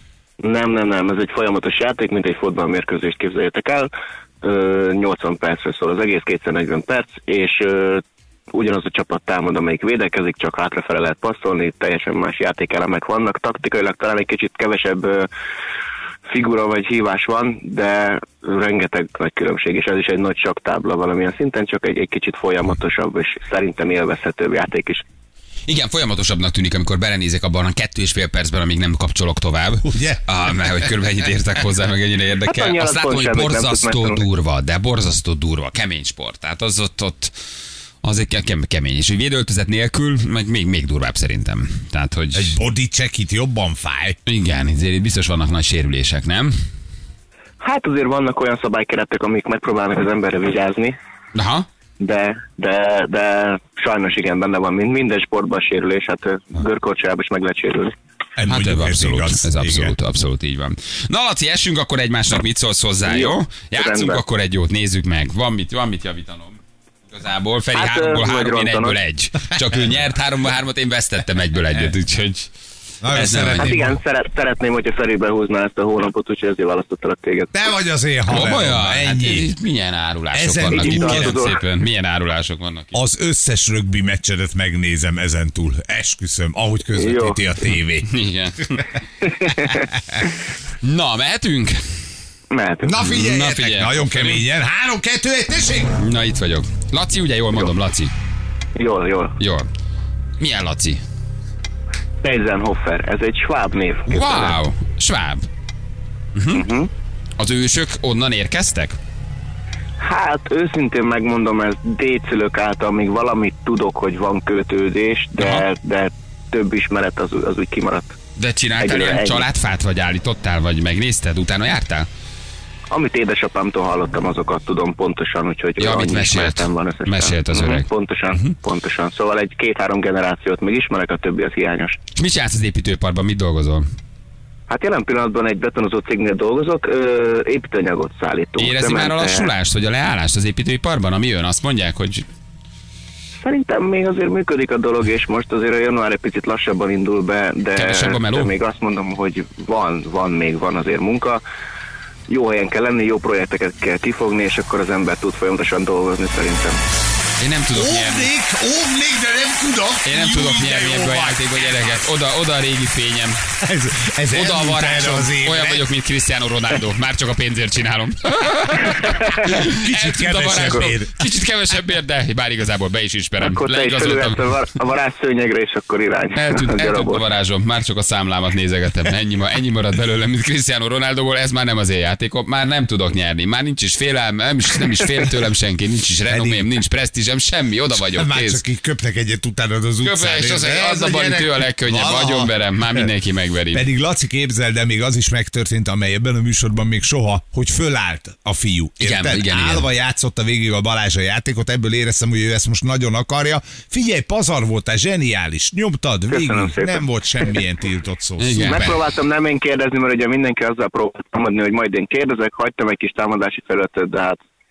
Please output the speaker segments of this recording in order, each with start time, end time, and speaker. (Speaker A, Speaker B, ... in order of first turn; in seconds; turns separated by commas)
Speaker A: 0.4-3.9, Speaker A: 4.4-15.3, Speaker A: 16.3-25.0, Speaker B: 25.7-37.3, Speaker C: 29.9-30.2, Speaker A: 32.4-34.2, Speaker B: 38.0-42.5, Speaker C: 42.3-44.2, Speaker B: 44.2-46.5, Speaker A: 47.6-51.0, Speaker B: 51.3-51.7, Speaker A: 52.0-57.9, Speaker C: 58.4-59.9, Speaker B: 58.5-72.5, Speaker A: 63.0-64.2, Speaker A: 67.7-69.0, Speaker C: 73.0-74.0, Speaker B: 73.1-73.8, Speaker A: 73.4-77.6, Speaker C: 77.5-79.5, Speaker B: 78.3-83.0, Speaker C: 80.3-81.4, Speaker A: 80.7-81.6, Speaker C: 82.9-88.1, Speaker A: 86.9-87.4, Speaker B: 88.0-89.0, Speaker A: 89.2-89.8, Speaker C: 89.6-90.2, Speaker B: 90.8-91.8, Speaker A: 92.5-93.0, Speaker C: 92.8-96.0, Speaker B: 93.0-94.4, Speaker B: 96.0-98.1, Speaker A: 98.8-99.4, Speaker B: 99.4-99.7, Speaker B: 100.4-101.0, Speaker A: 102.2-104.3, Speaker B: 104.1-105.5, Speaker B: 106.3-106.6, Speaker A: 106.5-106.9, Speaker B: 107.4-109.0, Speaker A: 110.0-118.2, Speaker B: 115.4-115.7, Speaker B: 118.4-122.1, Speaker A: 118.8-119.5, Speaker A: 122.9-132.0, Speaker B: 125.8-128.5, Speaker B: 132.2-133.9, Speaker A: 134.7-139.5, Speaker B: 138.6-142.3, Speaker A: 143.4-151.4, Speaker B: 147.7-148.5, Speaker A: 152.3-156.8, Speaker B: 157.4-158.3, Speaker C: 157.7-162.0, Speaker B: 160.0-163.5, Speaker C: 163.6-165.9, Speaker B: 164.3-174.5, Speaker C: 169.5-171.2, Speaker A: 173.4-177.2, Speaker B: 176.3-188.6, Speaker C: 186.3-186.7, Speaker C: 187.9-193.1, Speaker B: 190.0-193.8, Speaker C: 193.7-208.9, Speaker B: 199.0-199.9, Speaker A: 206.3-207.0, Speaker B: 208.4-209.0, Speaker A: 208.6-214.4